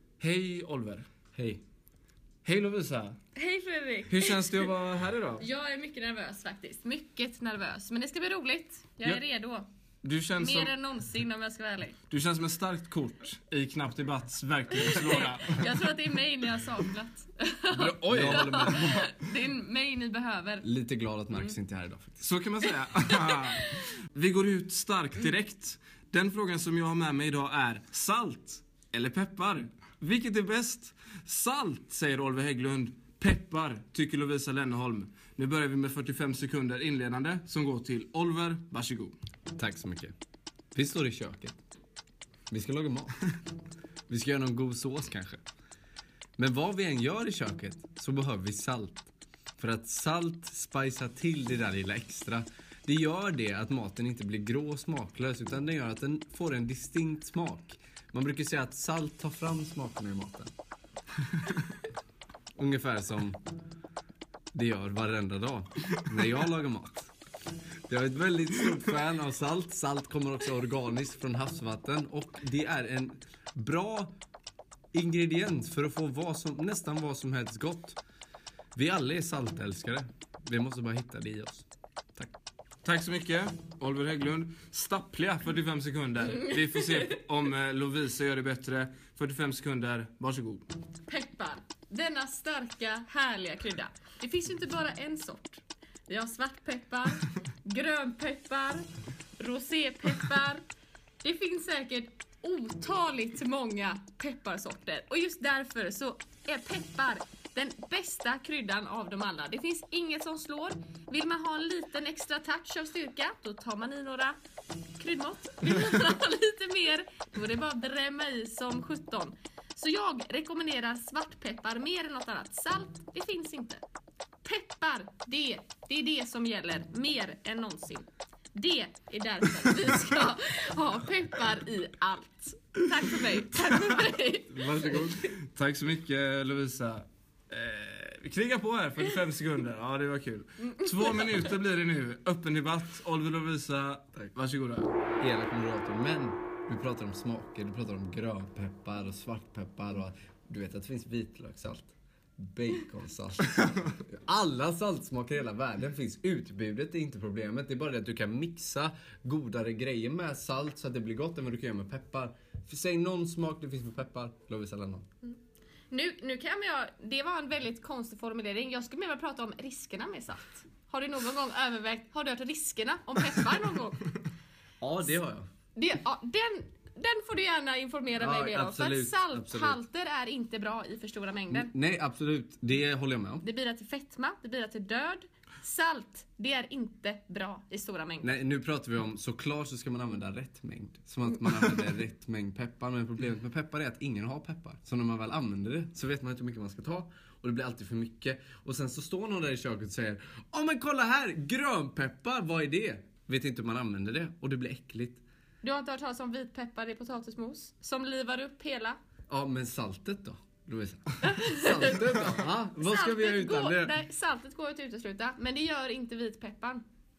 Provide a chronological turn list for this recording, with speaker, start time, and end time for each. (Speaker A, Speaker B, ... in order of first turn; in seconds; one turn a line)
Speaker A: 0.2-1.3
Speaker A: 2.4-3.2
Speaker B: 3.4-4.7
Speaker A: 4.1-5.4
Speaker B: 5.4-9.7
Speaker A: 10.0-10.7
Speaker B: 10.4-12.0
Speaker A: 12.1-15.7
Speaker B: 14.8-20.6
Speaker A: 17.7-19.1
Speaker C: 18.1-19.1
Speaker C: 20.6-22.2
Speaker A: 22.2-39.1
Speaker B: 23.1-23.8
Speaker C: 39.5-40.1
Speaker C: 40.7-41.6
Speaker C: 42.5-43.1
Speaker C: 44.1-45.4
Speaker C: 46.4-60.5
Speaker C: 62.5-63.4
Speaker C: 64.5-67.1
Speaker C: 67.9-74.1
Speaker C: 74.9-78.0
Speaker C: 78.7-82.3
Speaker A: 82.8-90.7
Speaker B: 91.1-98.8
Speaker B: 99.4-100.6
Speaker B: 101.2-114.3
Speaker B: 114.9-123.8
Speaker B: 124.4-135.3
Speaker C: 134.5-135.2
Speaker A: 135.2-144.9
Speaker B: 140.8-141.4
Speaker C: 145.2-165.0
Speaker B: 165.9-174.1
Speaker C: 174.8-175.4
Speaker B: 175.7-181.7
Speaker C: 178.2-179.8
Speaker C: 181.5-183.4
Speaker B: 183.4-188.3
Speaker C: 188.2-205.2
Speaker B: 205.6-209.0
Speaker C: 209.3-213.9
Speaker B: 211.2-216.8